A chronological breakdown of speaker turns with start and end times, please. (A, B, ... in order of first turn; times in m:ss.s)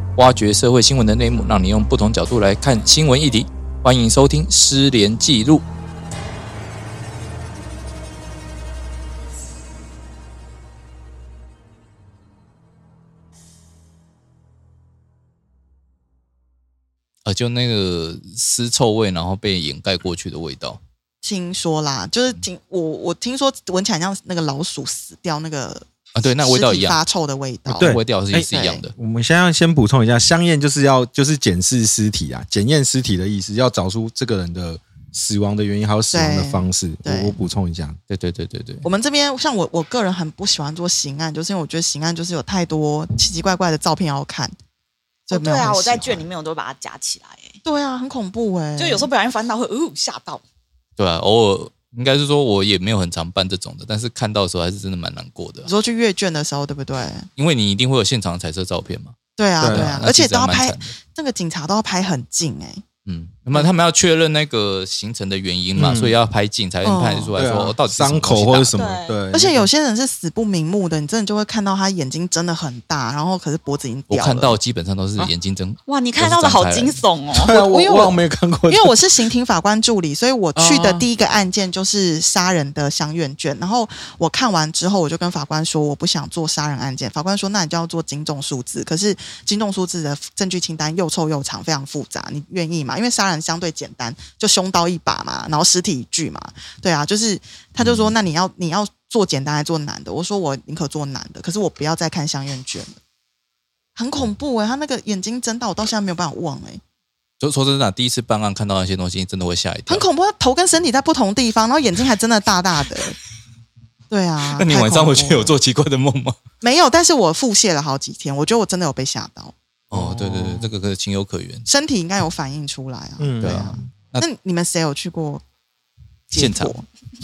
0:00.2-0:05.6 A
0:17.2-0:20.8 A
0:21.2-0:28.8 B
0:26.1-0:27.0 A
0:27.7-0:38.0 C
0:27.8-0:28.9 A
0:36.1-0:37.3 B
0:38.1-0:38.8 A
0:38.8-0:44.5 B
0:45.3-0:47.6 D
0:45.3-0:46.2 B
0:47.6-0:49.1 B
0:48.8-0:50.4 D
0:51.0-0:55.7 A
0:55.6-0:57.3 B
0:57.4-1:01.0 A
0:59.4-1:02.8 B
0:59.6-1:00.0 C
1:03.0-1:08.8 A
1:05.8-1:06.2 C
1:06.8-1:07.3 B
1:07.4-1:09.7 C
1:08.8-1:09.2 D
1:09.3-1:14.6 B
1:14.1-1:17.0 A
1:15.9-1:17.6 D
1:17.4-1:19.0 C
1:17.5-1:18.2 B
1:18.7-1:43.0 B
1:20.5-1:21.0 C
1:37.8-1:38.1 A
1:44.0-1:46.8 B
1:47.4-1:50.0 A
1:49.9-1:53.2 B
1:54.1-1:55.5 B
1:54.5-1:56.4 A
1:56.6-1:59.5 B
1:59.9-2:01.6 A
1:59.9-2:00.7 C
2:01.6-2:05.4 B
2:03.2-2:03.9 C
2:03.4-2:04.2 A
2:06.3-2:06.8 B
2:06.3-2:06.8 A